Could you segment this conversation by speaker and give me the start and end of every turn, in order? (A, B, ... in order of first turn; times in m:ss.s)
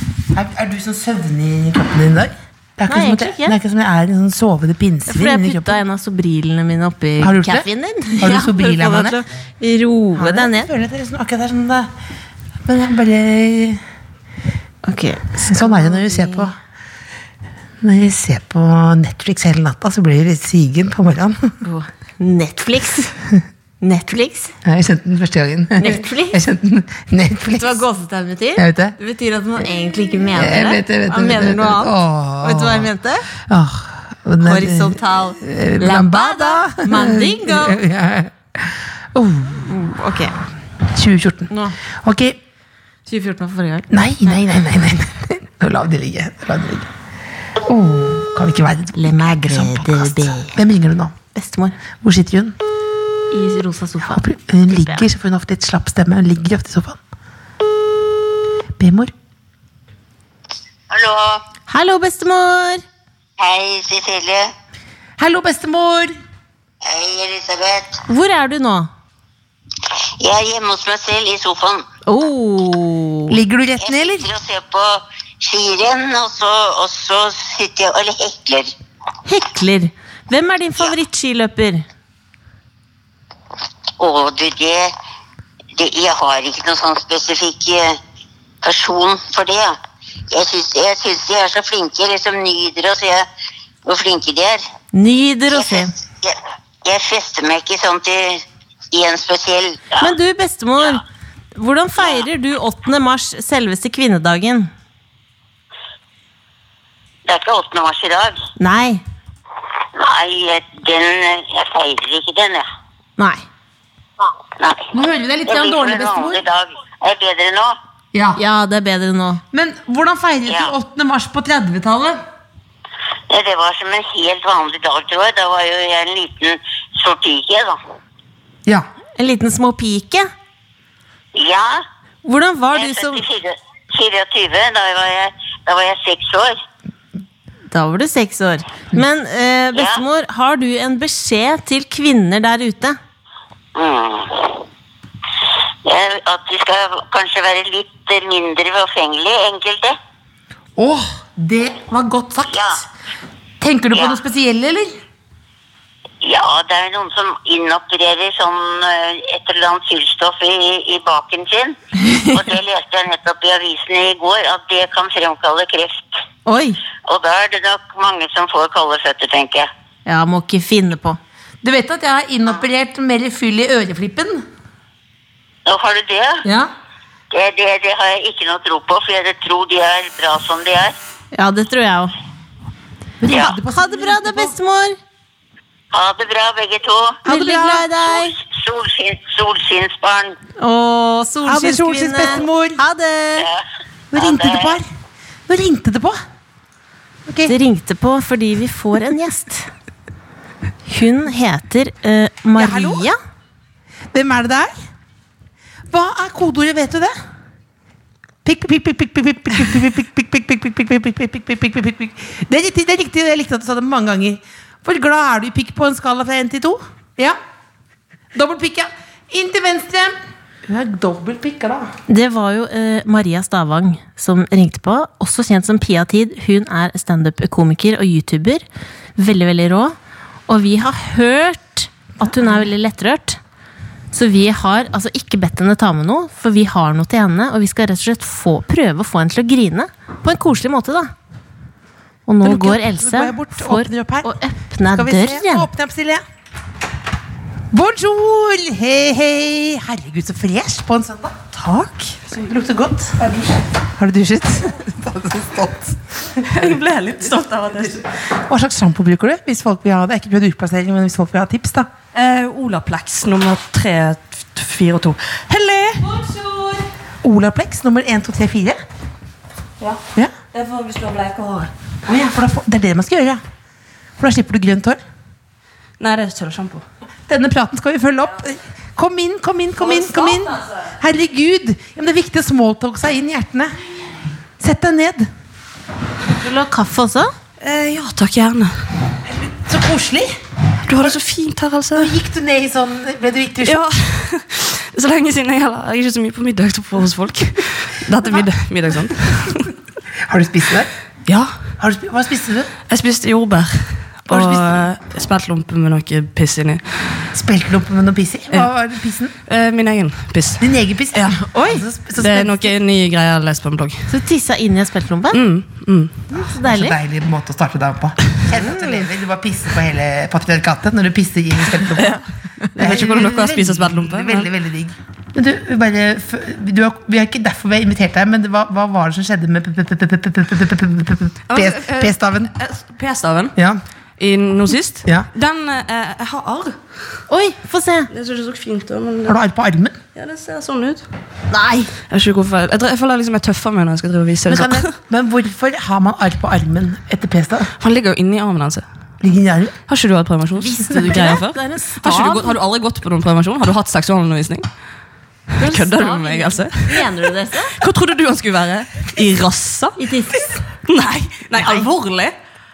0:00.3-0:05.8 A
0:02.9-0:03.6 B
0:05.1-0:10.7 B
0:07.2-0:09.2 A
0:10.2-0:11.9 A
0:12.7-0:13.8 A
0:14.8-0:16.5 B
0:15.4-0:16.5 A
0:17.8-0:21.5 A
0:21.6-0:23.2 B
0:23.8-0:24.6 B
0:24.6-0:27.8 A
0:25.8-0:26.4 B
0:27.5-0:33.3 B
0:28.6-0:29.0 A
0:30.4-0:39.7 A
0:34.4-0:37.8 B
0:39.7-0:40.4 B
0:40.9-0:42.4 A
0:41.5-0:41.8 B
0:43.1-0:44.4 B
0:43.9-0:46.9 A
0:47.6-0:51.2 A
0:49.0-0:50.6 B
0:51.3-0:51.8 B
0:52.0-0:52.6 A
0:53.3-0:55.1 B
0:54.1-0:57.0 A
0:58.8-0:59.1 A
1:00.9-1:01.4 C
1:01.7-1:02.8 B
1:03.4-1:04.5 C
1:05.2-1:06.2 A
1:06.8-1:08.0 C
1:08.1-1:08.9 B
1:10.2-1:11.9 C
1:12.1-1:13.4 B
1:13.3-1:14.3 A
1:13.8-1:18.7 C
1:19.2-1:21.8 B
1:24.0-1:24.9 C
1:25.8-1:28.0 C
1:28.6-1:29.8 C
1:30.3-1:33.2 C
1:33.8-1:34.6 C
1:34.9-1:35.9 B
1:35.5-1:40.1 C
1:40.0-1:41.0 B
1:41.6-1:44.7 B
1:47.2-1:48.4 C
1:48.6-1:49.0 B
1:49.9-1:52.6 C
1:53.2-1:53.4 B
1:54.6-1:54.9 C
1:54.9-1:56.4 A
1:55.5-1:57.8 C
1:58.1-1:58.4 A
1:58.4-1:59.4 B
1:59.5-2:02.2 A
2:03.3-2:07.8 C
2:09.2-2:10.3 B
2:11.3-2:11.8 C
2:12.2-2:13.2 B
2:12.7-2:16.6 C
2:17.7-2:23.0 B
2:19.7-2:20.0 C
2:23.8-2:24.6 C
2:25.8-2:30.0 C
2:30.8-2:32.9 A
2:32.5-2:32.8 C
2:33.6-2:35.0 A
2:36.2-2:41.8 C
2:42.0-2:42.4 B
2:42.3-2:46.1 C
2:46.5-2:46.8 B
2:47.0-2:49.7 C
2:50.1-2:51.2 B
2:51.6-2:54.4 A
2:55.7-2:56.4 C
2:56.4-2:56.7 A
2:57.3-3:01.0 C
3:01.3-3:02.1 B
3:03.2-3:04.6 A
3:03.4-3:05.0 B
3:05.9-3:07.2 C
3:07.2-3:07.9 A
3:07.3-3:08.4 B
3:08.0-3:10.4 C
3:10.6-3:13.5 B
3:11.4-3:12.8 A
3:13.4-3:13.6 C
3:14.1-3:14.9 A
3:14.2-3:14.8 C
3:15.5-3:16.2 A
3:17.3-3:17.6 A
3:17.5-3:19.7 B
3:20.9-3:23.2 B
3:22.6-3:23.1 A
3:24.1-3:24.7 A
3:25.9-3:27.1 A
3:28.4-3:37.4 A
3:38.3-3:40.1 A
3:40.6-3:41.9 A
3:42.1-3:48.6 B
3:49.2-3:50.0 B
3:50.5-3:53.4 B
3:54.1-4:01.1 B
4:02.3-4:05.7 B
4:02.4-4:04.3 A
4:04.9-4:06.2 A
4:07.7-4:11.4 A
4:11.5-4:12.3 D
4:12.3-4:16.6 A
4:16.4-4:18.1 D
4:18.3-4:21.9 A
4:22.1-4:26.3 D
4:26.1-4:26.8 B
4:27.2-4:28.8 A
4:30.5-4:31.7 D
4:32.0-4:33.4 A
4:34.2-4:35.0 A
4:36.0-4:36.8 D
4:37.3-4:43.8 A
4:39.8-4:40.8 D
4:44.6-4:45.3 A
4:46.4-4:47.3 B
4:47.6-4:48.8 D
4:49.4-4:50.4 A
4:50.9-4:52.1 D
4:51.9-4:53.8 A
4:53.6-4:59.7 D
5:00.3-5:00.9 A
5:01.3-5:01.5 D
5:01.8-5:02.7 A
5:02.9-5:06.8 D
5:04.3-5:04.7 A
5:07.3-5:09.3 A
5:09.5-5:11.4 D
5:10.6-5:12.8 A
5:11.4-5:11.8 B
5:12.2-5:14.1 D
5:14.1-5:15.4 B
5:15.3-5:16.1 D
5:16.3-5:17.0 B
5:16.5-5:22.2 A
5:18.5-5:19.1 B
5:22.0-5:22.2 D
5:22.8-5:24.5 D
5:22.8-5:32.5 A
5:31.5-5:33.6 D
5:34.2-5:36.8 D
5:37.3-5:38.1 B
5:38.1-5:39.4 D
5:39.3-5:40.0 A
5:40.1-5:41.0 D
5:41.5-5:41.9 B
5:42.0-5:44.9 D
5:44.5-5:47.7 A
5:47.8-5:48.8 D
5:49.2-5:49.8 A
5:49.9-5:54.6 D
5:50.6-5:52.6 B
5:55.6-5:57.1 D
5:55.6-5:57.7 B
5:57.8-6:00.0 D
6:00.0-6:00.6 B
6:00.8-6:02.3 D
6:01.6-6:01.9 B